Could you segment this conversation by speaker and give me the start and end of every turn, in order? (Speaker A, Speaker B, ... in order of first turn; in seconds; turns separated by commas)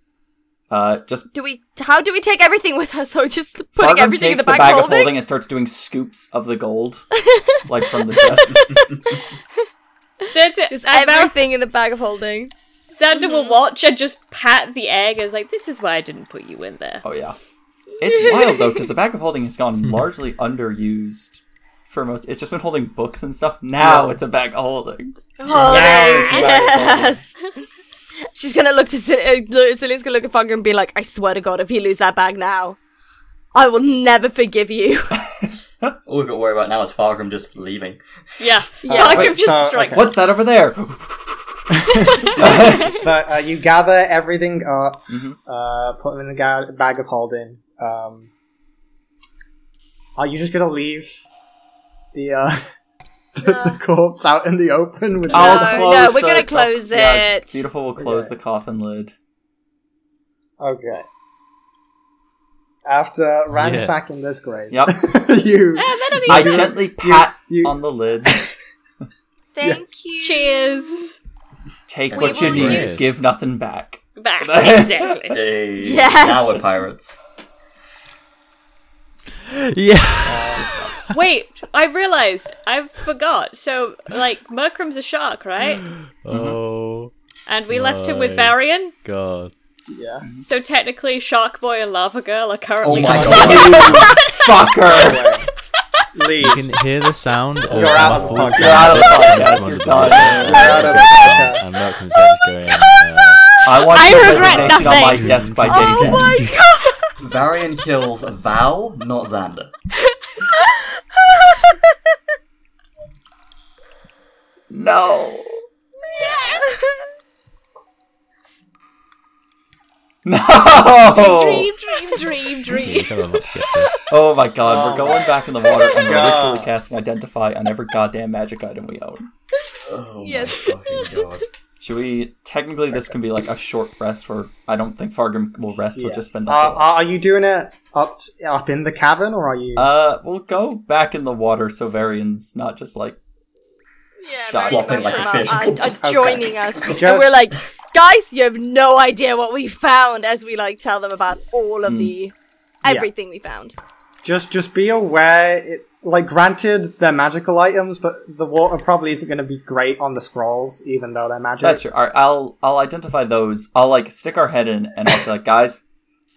Speaker A: 0.7-1.3, Speaker B: 1.3-5.2, Speaker A: 3.8-7.1, Speaker B: 7.2-7.6, Speaker A: 7.7-9.0, Speaker C: 8.7-8.9, Speaker B: 10.2-12.5, Speaker D: 10.3-11.4, Speaker D: 12.9-17.0, Speaker B: 13.1-13.6, Speaker A: 17.0-17.4, Speaker A: 18.0-27.2, Speaker B: 18.0-18.9, Speaker E: 23.8-24.1, Speaker B: 25.4-27.4, Speaker D: 25.6-26.6, Speaker B: 28.4-32.8, Speaker B: 33.5-35.2, Speaker A: 35.1-35.9, Speaker C: 36.1-38.0, Speaker D: 38.4-40.2, Speaker B: 38.8-39.3, Speaker A: 38.9-43.0, Speaker E: 38.9-40.1, Speaker E: 41.9-48.3, Speaker A: 45.1-45.4, Speaker E: 50.2-51.2, Speaker E: 52.1-52.7, Speaker E: 53.4-55.9, Speaker B: 53.4-53.8, Speaker B: 55.3-57.6, Speaker A: 55.3-59.1, Speaker E: 58.0-58.3, Speaker E: 60.6-61.1, Speaker E: 62.9-68.4, Speaker F: 63.5-63.9, Speaker A: 64.7-65.0, Speaker D: 65.8-66.8, Speaker A: 66.3-68.5, Speaker B: 69.5-71.1, Speaker E: 69.6-69.9, Speaker D: 70.2-71.2, Speaker A: 71.9-75.4, Speaker C: 72.1-72.9, Speaker B: 72.2-72.8, Speaker F: 72.4-73.1, Speaker D: 74.2-75.4, Speaker C: 75.3-77.2, Speaker B: 75.8-76.7, Speaker F: 79.5-80.6, Speaker E: 80.2-80.7, Speaker A: 80.6-81.0, Speaker D: 81.1-85.9, Speaker F: 86.2-87.1, Speaker A: 86.3-86.6, Speaker D: 87.5-88.9, Speaker F: 87.7-89.5, Speaker E: 89.9-90.3, Speaker D: 90.4-94.0, Speaker C: 92.8-94.2, Speaker A: 92.9-95.3, Speaker E: 94.8-95.5, Speaker E: 96.1-96.7, Speaker F: 96.4-103.6, Speaker E: 97.7-99.6, Speaker A: 97.8-101.3, Speaker E: 100.2-101.6, Speaker B: 103.6-107.1, Speaker A: 103.6-106.4, Speaker D: 103.9-105.3, Speaker F: 104.1-106.5, Speaker C: 105.8-106.3, Speaker C: 107.2-109.7, Speaker B: 110.5-111.8, Speaker A: 114.7-115.6, Speaker B: 116.1-117.0, Speaker A: 120.2-121.7, Speaker B: 121.1-124.1, Speaker D: 121.1-123.1, Speaker F: 122.7-124.0, Speaker A: 124.0-129.3, Speaker E: 124.6-125.2, Speaker B: 125.1-126.3, Speaker E: 126.1-126.7, Speaker C: 129.9-131.5, Speaker B: 130.2-131.4, Speaker A: 131.8-136.9, Speaker E: 135.9-139.9, Speaker A: 139.8-143.2, Speaker B: 144.2-152.3, Speaker A: 144.4-145.5, Speaker C: 144.5-146.1, Speaker E: 146.0-147.4, Speaker C: 146.8-147.0, Speaker A: 151.9-152.1, Speaker B: 152.8-153.8, Speaker E: 154.2-161.8, Speaker A: 161.6-165.8